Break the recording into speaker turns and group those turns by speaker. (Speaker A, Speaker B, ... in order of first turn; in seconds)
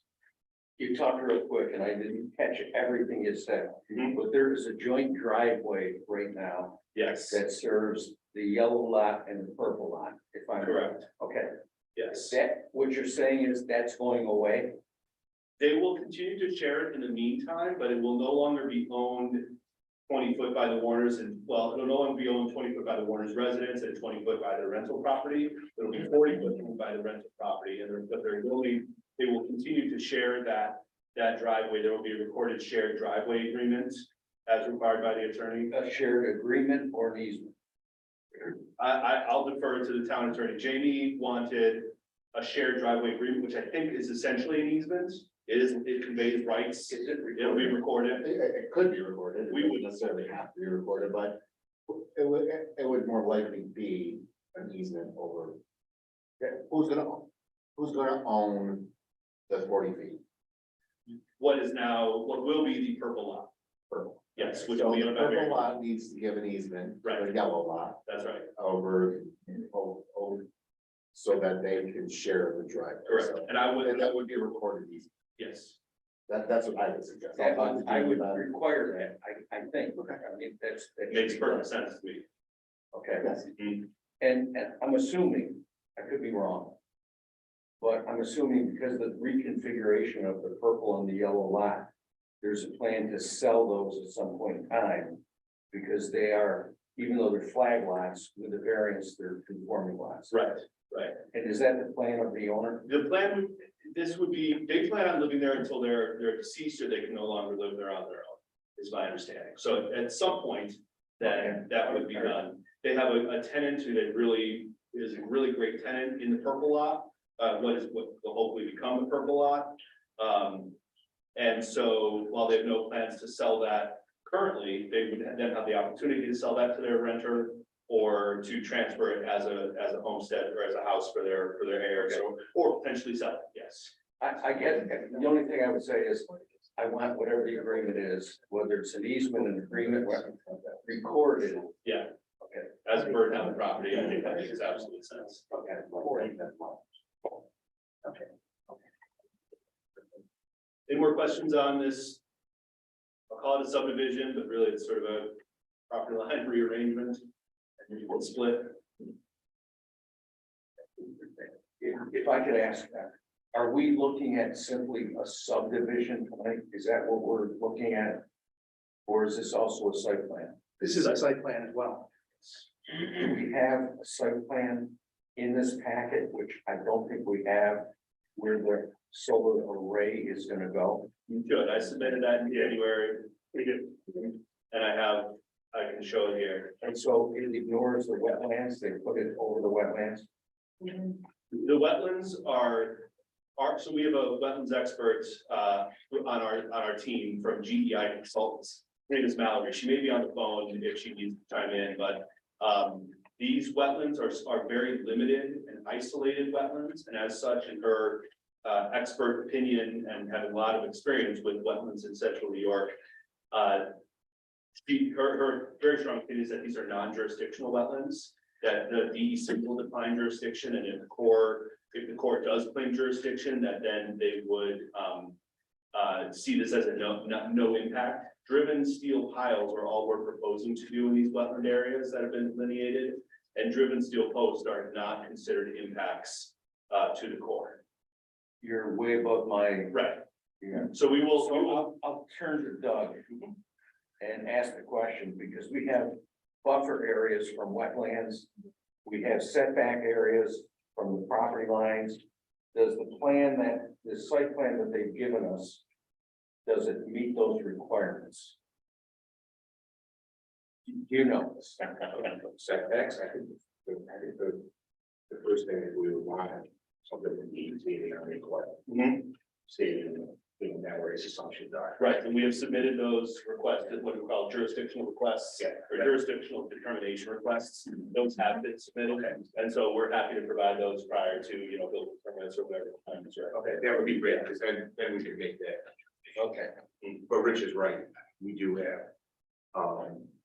Speaker A: 0.8-11.5, 12.1-14.7, 35.7-37.5, 46.9-47.8, 77.3-81.7, 82.9-86.8, 87.8-91.9, 92.4-100.5, 101.3-102.9, 134.2-141.8, 161.0-168.2, 169.1-170.6, 172.9-181.1, 186.8-190.2, 238.6-240.1, 240.6-243.2, 244.2-248.5, 249.0-252.2, 252.7-255.8, 256.6-258.5, 260.9-262.1, 286.4-286.7
Speaker B: 6.9-7.4, 10.6-11.0, 11.9-12.3, 15.6-35.7, 38.8-48.2, 49.5-49.8, 61.1-63.5, 64.3-65.7, 67.0-67.3, 68.0-68.5, 73.0-74.1, 75.4-75.8, 81.1-82.2, 100.3-101.2, 102.8-120.8, 121.3-133.9, 141.8-142.1, 142.8-145.5, 150.9-152.2, 153.3-157.2, 157.8-158.8, 181.3-186.8, 191.5-212.9, 213.5-213.9, 214.8-225.4, 225.9-237.8, 239.9-240.2, 240.9-241.8, 268.9-269.3, 272.0-283.7
Speaker C: 48.0-55.6, 56.4-58.9, 59.5-60.2, 63.9-68.0, 68.5-70.5, 71.1-75.1, 76.3-78.5, 145.7-146.8, 262.6-264.7, 265.3-268.8, 269.7-272.0, 283.5-285.8, 287.1-289.1, 289.7-290.1
Speaker D: 170.9-172.0, 267.1-267.9, 270.3-270.6